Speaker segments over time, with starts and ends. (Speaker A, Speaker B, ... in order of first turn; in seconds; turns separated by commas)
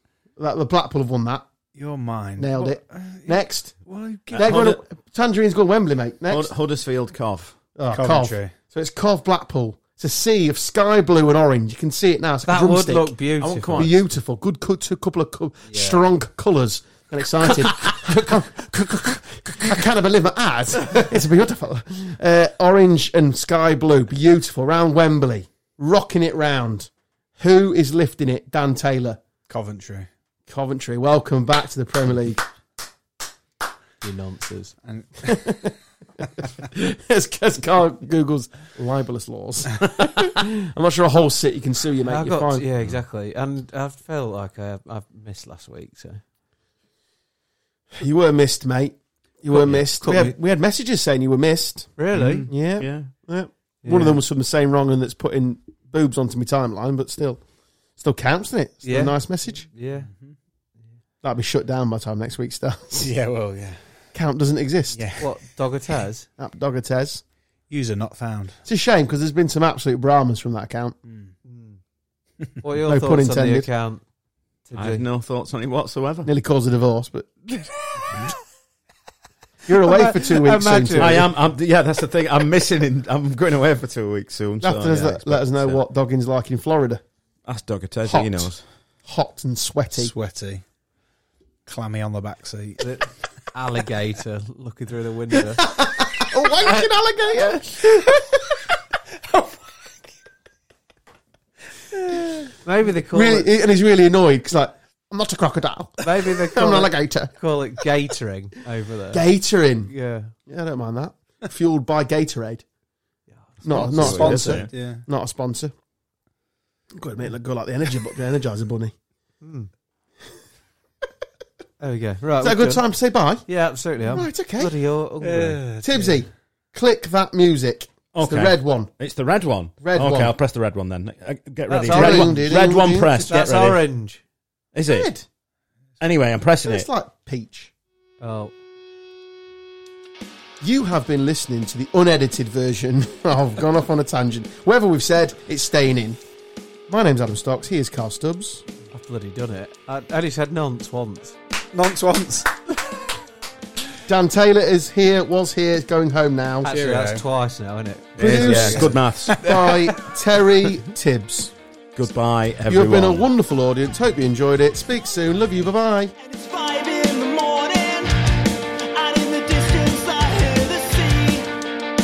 Speaker A: 0.4-1.4, Speaker B: 1.7-4.8, Speaker A: 2.4-3.7, Speaker C: 4.3-4.8, Speaker A: 4.3-6.5, Speaker C: 6.3-7.6, Speaker A: 7.8-13.1, Speaker B: 7.9-8.5, Speaker D: 12.4-13.9, Speaker C: 13.4-13.9, Speaker A: 13.7-29.2, Speaker D: 15.7-16.0, Speaker B: 29.5-30.1, Speaker A: 30.5-32.5, Speaker D: 34.0-34.8, Speaker B: 34.8-35.5, Speaker A: 35.2-35.7, Speaker A: 36.4-42.6, Speaker D: 42.1-46.2, Speaker A: 48.0-52.0, Speaker D: 49.5-50.3, Speaker D: 52.0-52.5, Speaker C: 52.1-53.1, Speaker A: 52.5-57.4, Speaker D: 53.8-54.2, Speaker A: 58.0-59.7, Speaker D: 58.8-60.1, Speaker A: 61.2-63.1, Speaker B: 63.0-63.8, Speaker A: 64.1-65.0, Speaker B: 64.9-65.2, Speaker D: 65.2-66.3, Speaker A: 66.4-67.2, Speaker B: 67.7-68.6, Speaker A: 68.7-71.0, Speaker B: 71.0-71.3, Speaker D: 71.4-71.8, Speaker D: 72.6-74.0, Speaker A: 72.8-73.7, Speaker D: 74.7-75.0, Speaker C: 74.8-76.3, Speaker A: 76.2-77.6, Speaker A: 79.7-81.3, Speaker D: 79.8-81.2, Speaker C: 80.9-85.8, Speaker A: 84.6-87.0, Speaker C: 87.5-88.6, Speaker A: 88.1-88.5, Speaker A: 89.0-90.1, Speaker B: 90.0-90.6, Speaker B: 91.7-92.9, Speaker D: 92.8-95.8, Speaker A: 95.6-98.2, Speaker B: 99.3-99.6, Speaker B: 101.9-102.4, Speaker D: 102.6-103.5, Speaker A: 103.1-107.3, Speaker D: 106.0-109.2, Speaker A: 109.1-109.9, Speaker D: 109.9-110.3, Speaker A: 110.5-112.6, Speaker D: 113.3-114.6, Speaker A: 113.6-115.7, Speaker C: 113.7-114.7, Speaker B: 113.8-115.0, Speaker A: 116.9-118.9, Speaker D: 119.4-119.7, Speaker D: 121.8-122.8, Speaker A: 122.4-123.5, Speaker D: 123.5-125.8, Speaker A: 124.1-124.7, Speaker B: 125.2-126.1, Speaker A: 125.8-128.9, Speaker C: 128.1-133.8, Speaker A: 129.8-130.3, Speaker D: 131.7-132.6, Speaker A: 131.8-133.2, Speaker D: 133.3-134.2, Speaker C: 134.7-135.1, Speaker A: 134.9-135.2, Speaker C: 136.0-136.9, Speaker A: 136.6-137.7, Speaker D: 138.2-138.5, Speaker A: 140.6-146.2, Speaker A: 146.9-148.6, Speaker D: 148.9-151.3, Speaker B: 151.7-152.6, Speaker A: 154.1-156.7, Speaker D: 156.6-158.9, Speaker B: 156.7-157.2, Speaker A: 158.2-161.5, Speaker C: 158.2-159.5, Speaker B: 158.2-160.0, Speaker C: 161.9-163.3, Speaker A: 162.7-166.1, Speaker D: 166.2-171.6